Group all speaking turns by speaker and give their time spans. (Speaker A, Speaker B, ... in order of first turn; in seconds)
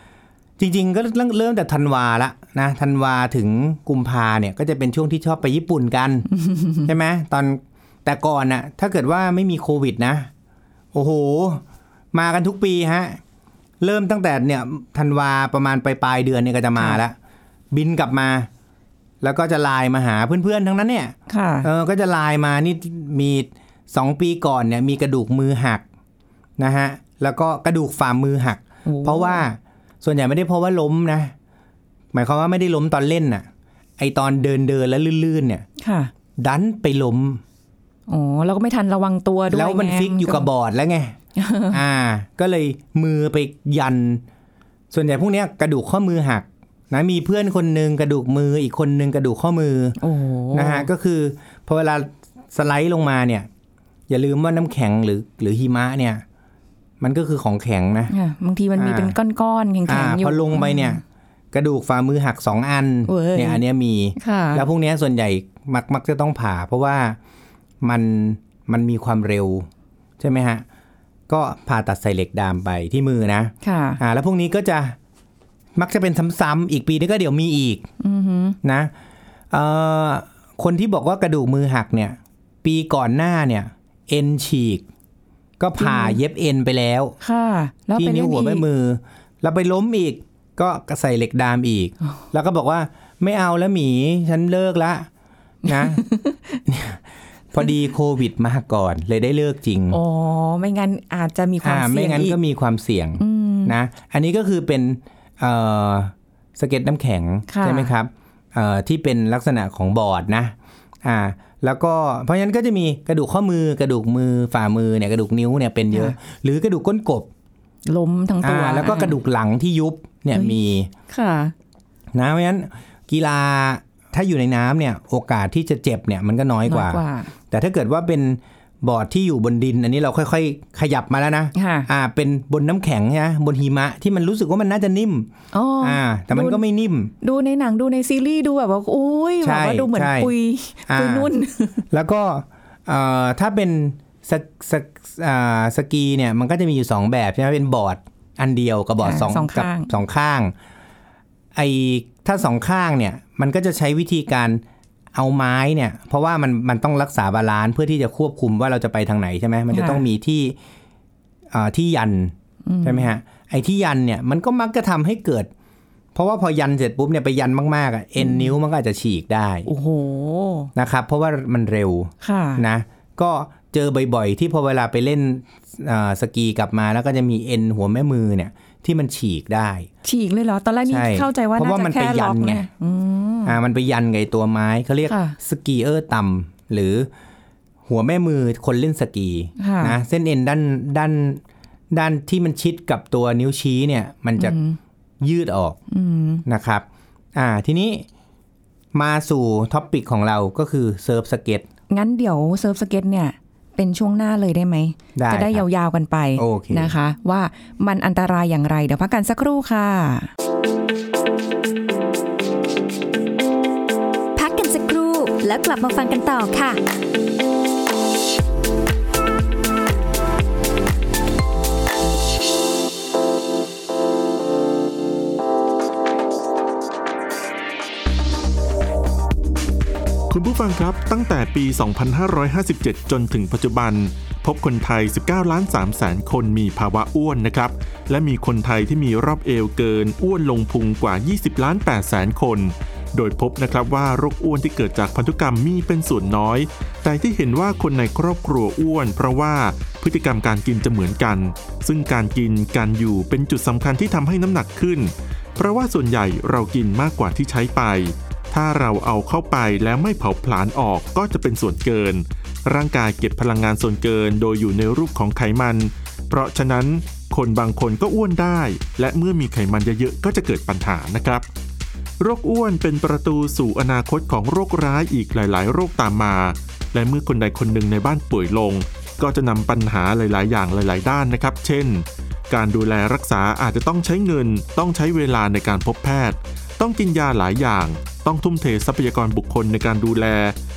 Speaker A: 0.6-6.3, 6.8-10.3, 10.9-11.6, 12.1-13.2, 13.8-17.2, 17.7-18.5, 19.2-25.8, 26.6-31.3, 32.1-33.5, 34.0-35.6, 36.4-37.4, 39.5-41.2, 41.7-44.2, 44.9-50.0, 50.5-53.5, 54.1-56.2, 57.0-58.1, 58.8-59.2, 59.9-61.0, 61.5-67.2, 67.8-69.7, 70.2-70.6, 71.3-75.0, 75.8-77.9, 78.6-78.9, 79.5-84.8, 85.6-87.2, 88.0-95.1, 95.7-96.0, 96.7-100.0, 101.6-117.3, 118.4-120.9, 122.1-135.3, 135.8-137.1, 139.4-140.3, 140.9-141.3, 141.9-150.5, 151.6-154.6, 155.1-160.6, 161.5-165.5, 166.2-169.7, 170.8-179.9, 180.9-182.7, 183.4-187.1, 187.9-194.6, 195.2-195.8, 196.5-198.1, 198.9-201.7, 205.2-205.7, 206.4-206.9
Speaker B: 6.5-6.8, 21.3-21.7, 28.9-29.4, 35.8-36.1, 38.1-40.5, 41.4-41.8, 50.0-50.9, 58.1-61.0, 63.1-63.6, 64.2-64.7, 73.6-74.0, 78.0-78.6, 85.8-86.2, 87.2-88.7, 95.7-96.4, 99.9-102.4, 103.2-103.8, 107.5-107.9, 117.9-119.2, 121.1-121.5, 126.7-127.3, 131.6-131.9, 135.5-136.6, 137.2-141.8, 149.0-149.9, 159.7-160.0, 162.7-163.1, 168.2-168.6, 169.7-170.7, 172.2-172.6, 180.0-183.6, 185.1-185.4, 189.6-190.0, 194.4-194.8, 195.9-196.4, 201.9-210.3
Speaker C: 214.4-216.8
Speaker D: 230.3-271.4, 272.2-290.6